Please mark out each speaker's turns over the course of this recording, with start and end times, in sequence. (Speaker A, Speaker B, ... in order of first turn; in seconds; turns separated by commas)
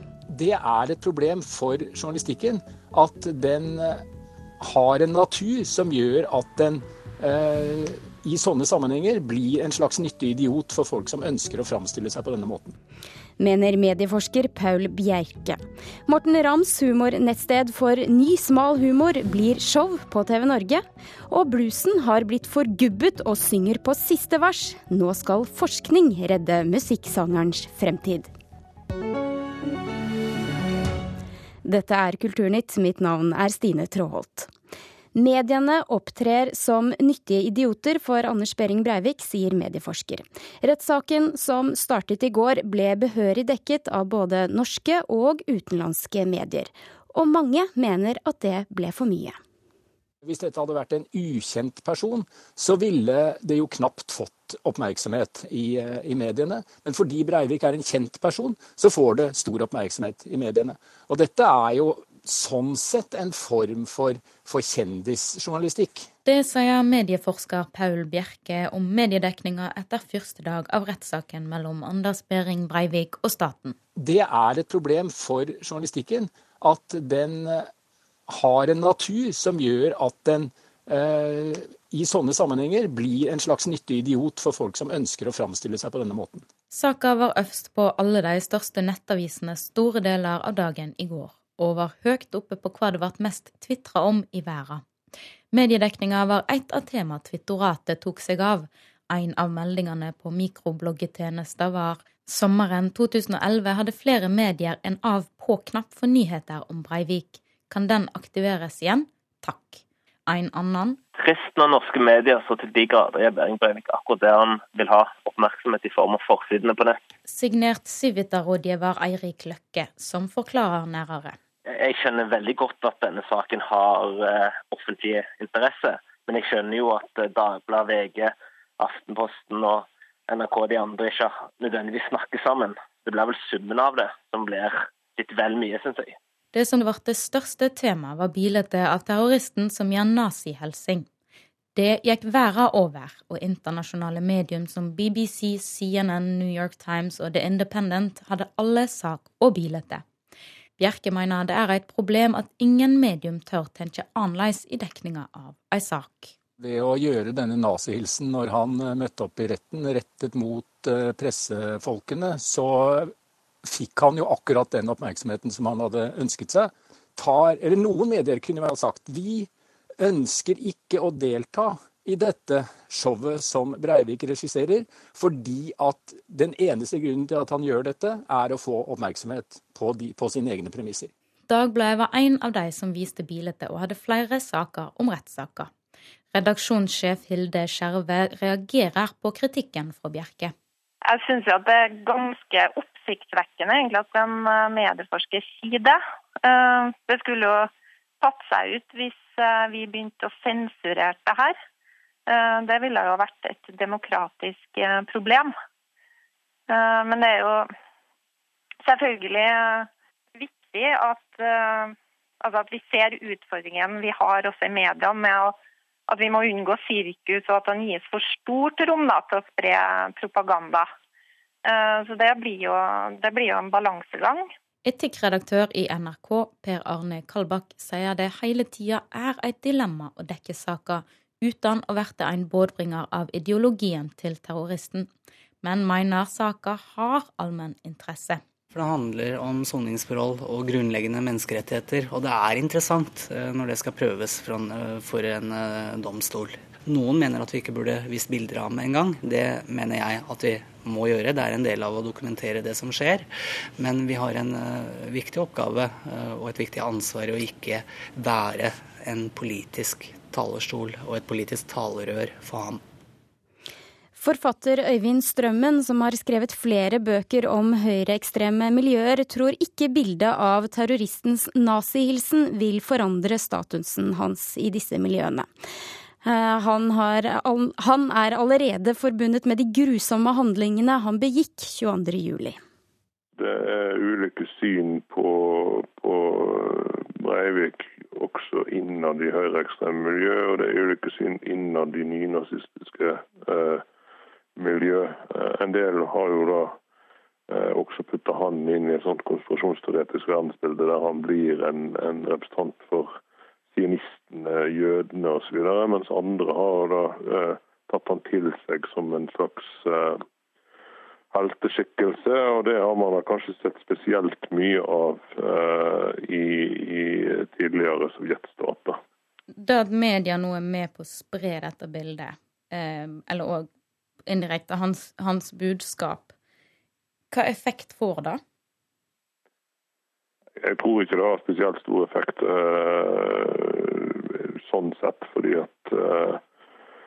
Speaker A: 0.3-4.0, Speaker A: 4.6-12.8, Speaker B: 13.4-28.3, Speaker B: 31.6-34.5, Speaker B: 35.1-49.4, Speaker A: 50.2-66.1, Speaker C: 66.2-73.8, Speaker A: 74.0-77.7, Speaker A: 78.3-86.5, Speaker C: 86.7-94.8, Speaker C: 95.5-111.0, Speaker D: 111.2-117.0, Speaker C: 117.3-121.4, Speaker D: 121.7-136.2, Speaker C: 136.5-141.1, Speaker C: 141.8-150.0, Speaker C: 150.8-156.3, Speaker A: 156.6-163.1, Speaker A: 163.7-169.5, Speaker A: 170.0-181.1, Speaker C: 181.5-185.7, Speaker C: 186.3-190.5, Speaker E: 191.1-201.6, Speaker E: 202.3-205.5, Speaker E: 206.7-207.7, Speaker E: 208.8-215.6, Speaker E: 216.1-220.9, Speaker E: 221.7-224.5, Speaker C: 224.8-235.1, Speaker C: 235.6-238.4, Speaker F: 238.7-253.3, Speaker F: 253.8-262.8, Speaker B: 264.2-275.5, Speaker B: 276.2-282.6, Speaker G: 283.4-293.9, Speaker G: 294.6-296.8, Speaker G: 297.5-303.2, Speaker G: 303.7-310.2, Speaker G: 311.3-319.0, Speaker C: 319.5-323.7, Speaker C: 324.3-326.3, Speaker C: 327.3-328.4, Speaker G: 330.6-336.4